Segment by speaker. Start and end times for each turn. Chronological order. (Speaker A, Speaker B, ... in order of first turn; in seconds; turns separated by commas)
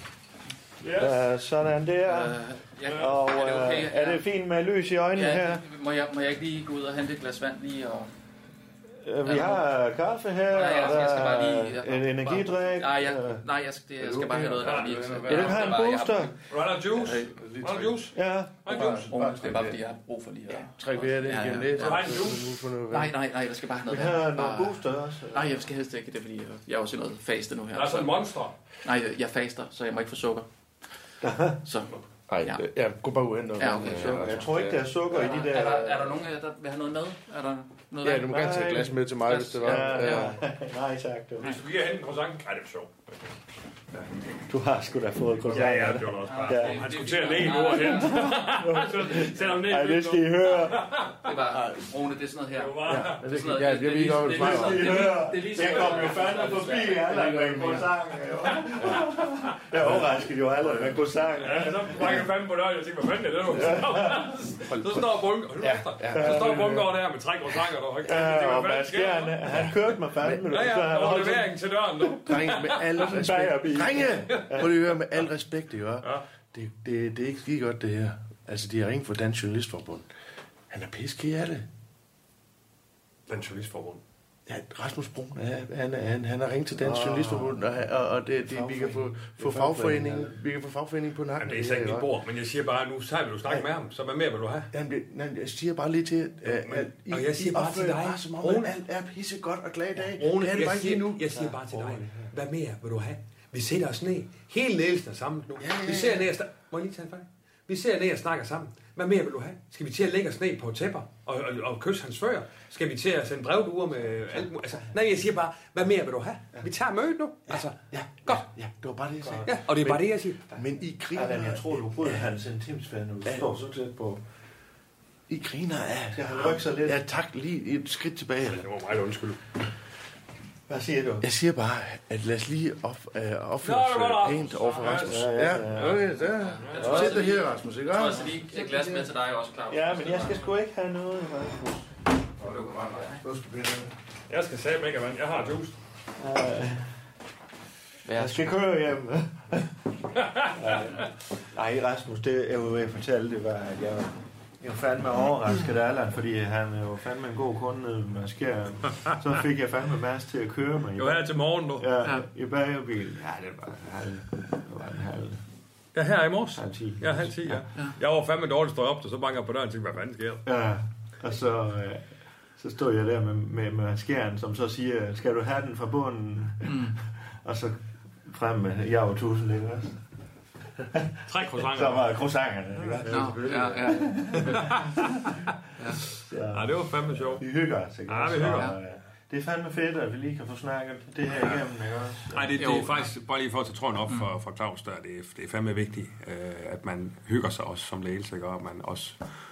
Speaker A: 0.8-1.2, Speaker B: 0.9-2.4, Speaker C: 2.0-4.2, Speaker B: 2.9-5.6, Speaker C: 5.1-8.1, Speaker B: 9.0-13.4, Speaker C: 9.2-9.6, Speaker C: 10.5-16.4, Speaker D: 14.0-15.6, Speaker A: 14.6-15.7, Speaker B: 15.3-16.4, Speaker A: 16.5-19.1, Speaker C: 17.1-17.3, Speaker D: 17.3-18.1, Speaker B: 18.1-19.0, Speaker D: 18.7-19.8, Speaker C: 18.9-22.4, Speaker D: 20.6-23.1, Speaker A: 21.8-22.4, Speaker C: 22.9-24.8, Speaker B: 23.9-25.6, Speaker C: 25.3-28.1, Speaker A: 27.7-28.6, Speaker C: 28.8-30.5, Speaker B: 31.2-31.6, Speaker C: 31.6-32.6, Speaker D: 32.3-34.8, Speaker C: 33.5-34.5, Speaker B: 33.9-36.1, Speaker C: 35.1-40.4, Speaker D: 38.0-40.4, Speaker B: 38.3-38.9, Speaker B: 39.6-41.6, Speaker A: 41.4-43.2, Speaker B: 44.5-46.9, Speaker A: 45.5-51.2, Speaker C: 46.2-48.4, Speaker B: 48.1-50.9, Speaker C: 51.2-57.8, Speaker D: 51.5-51.9, Speaker A: 52.5-53.3, Speaker B: 52.9-53.2, Speaker D: 53.2-55.2, Speaker B: 54.4-62.2, Speaker D: 57.1-57.9, Speaker A: 59.5-60.0, Speaker A: 61.4-69.7, Speaker B: 63.5-64.4, Speaker D: 65.6-66.8, Speaker B: 66.0-66.9, Speaker B: 68.0-72.4, Speaker A: 70.4-73.1, Speaker D: 72.2-80.1, Speaker B: 73.0-74.7, Speaker D: 80.7-81.7, Speaker A: 83.3-84.0, Speaker D: 84.5-92.1, Speaker B: 86.8-87.6, Speaker B: 88.4-90.3, Speaker A: 91.4-94.7, Speaker D: 94.7-101.1, Speaker A: 96.5-98.7, Speaker A: 100.2-118.4, Speaker B: 101.3-102.3, Speaker D: 105.6-106.3, Speaker B: 114.3-115.0, Speaker D: 117.5-120.0, Speaker B: 119.2-120.0, Speaker A: 119.4-120.4, Speaker D: 120.5-122.2, Speaker B: 121.1-124.2, Speaker D: 125.3-128.6, Speaker B: 126.1-127.0, Speaker A: 128.4-129.4, Speaker B: 130.7-131.3, Speaker D: 131.2-139.1, Speaker A: 133.6-136.1, Speaker B: 134.8-136.1, Speaker C: 136.4-140.5, Speaker A: 136.6-137.1, Speaker B: 136.9-137.2, Speaker B: 139.7-141.9, Speaker D: 142.4-143.9, Speaker C: 142.4-143.2, Speaker A: 144.3-145.8, Speaker B: 146.2-146.9, Speaker C: 148.1-148.6, Speaker B: 148.2-149.7, Speaker A: 150.2-150.9, Speaker B: 150.5-165.4, Speaker A: 161.0-161.9, Speaker A: 165.9-170.4, Speaker B: 166.6-167.6, Speaker B: 170.4-172.1, Speaker B: 172.6-180.0, Speaker C: 176.7-177.0, Speaker B: 180.9-185.2, Speaker A: 181.3-182.1, Speaker D: 182.8-184.4, Speaker C: 183.1-184.6, Speaker A: 184.5-185.0, Speaker B: 186.2-192.6, Speaker A: 186.5-187.4, Speaker A: 188.1-188.7, Speaker A: 192.3-199.2, Speaker C: 192.6-193.0